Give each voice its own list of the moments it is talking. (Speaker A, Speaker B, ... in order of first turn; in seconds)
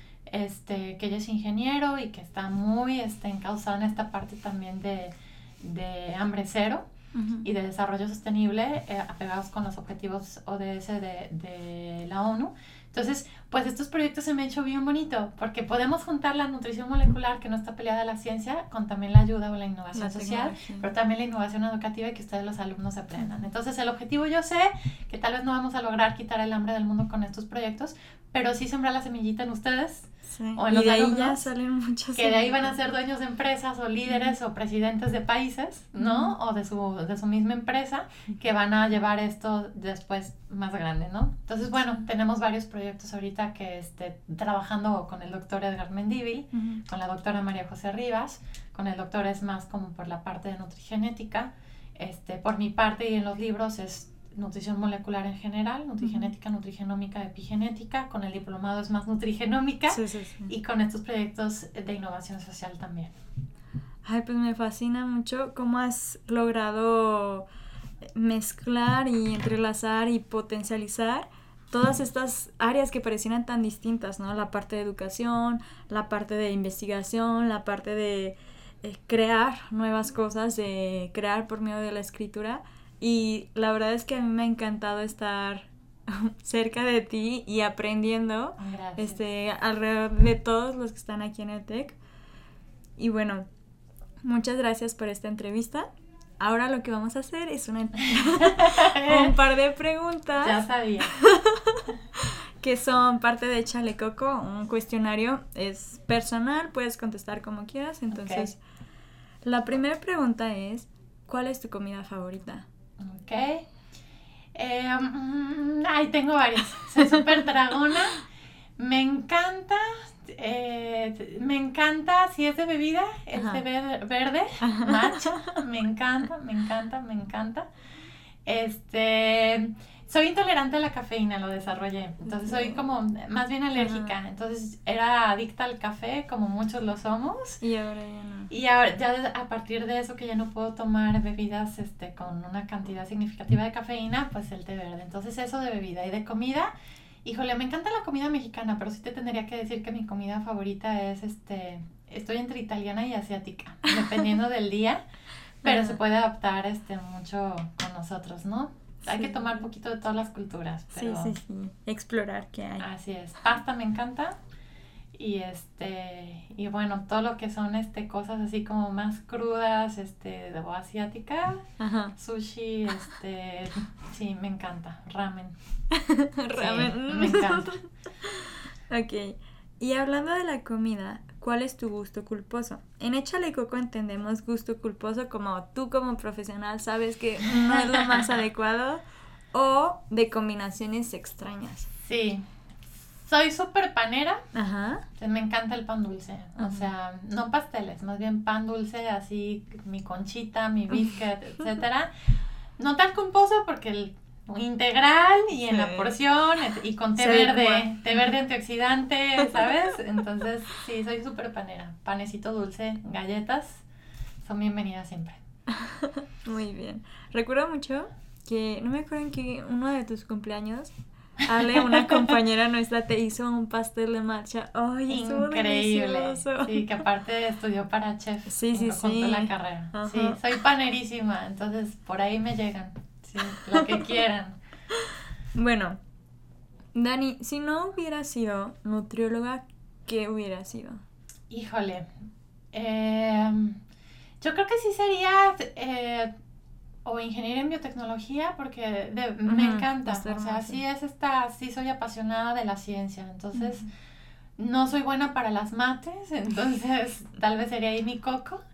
Speaker A: 0.3-6.8, 7.4-31.5, 32.1-63.1, 88.6-89.2, 98.0-99.3, 100.4-101.1, 108.1-108.5, 113.0-113.7, 114.5-118.2, 118.8-127.7, 128.4-137.6, 138.5-146.7, 147.2-155.0, 155.6-161.4, 162.8-164.3, 165.1-171.6, 172.2-175.6, 176.5-177.8, 187.6-188.3, 192.0-192.4, 193.2-194.4, 195.2-202.1, 202.8-213.8, 214.4-215.4, 221.8-222.3, 225.1-234.6, 241.5-242.1, 242.7-243.8, 244.4-246.3, 247.0-253.9, 254.6-258.6
Speaker B: 7.1-7.4, 19.9-20.9, 30.3-32.7, 34.1-34.3, 36.0-36.3, 56.0-56.3, 59.9-60.5, 64.0-67.5, 68.0-92.0, 93.0-93.5, 94.2-95.9, 96.4-108.6, 109.4-112.7, 117.0-117.3, 123.3-123.6, 124.6-125.6, 132.2-132.8, 133.8-134.2, 137.6-138.5, 155.6-156.0, 159.1-159.6, 160.9-162.9, 171.8-172.1, 175.9-189.0, 189.5-191.9, 194.5-195.0, 196.6-196.9, 205.7-206.1, 207.2-207.9, 209.4-209.9, 215.7-220.9, 221.4-226.9, 228.5-230.5, 233.4-234.2, 234.9-236.0, 236.9-241.0, 249.4-250.8, 253.5-253.8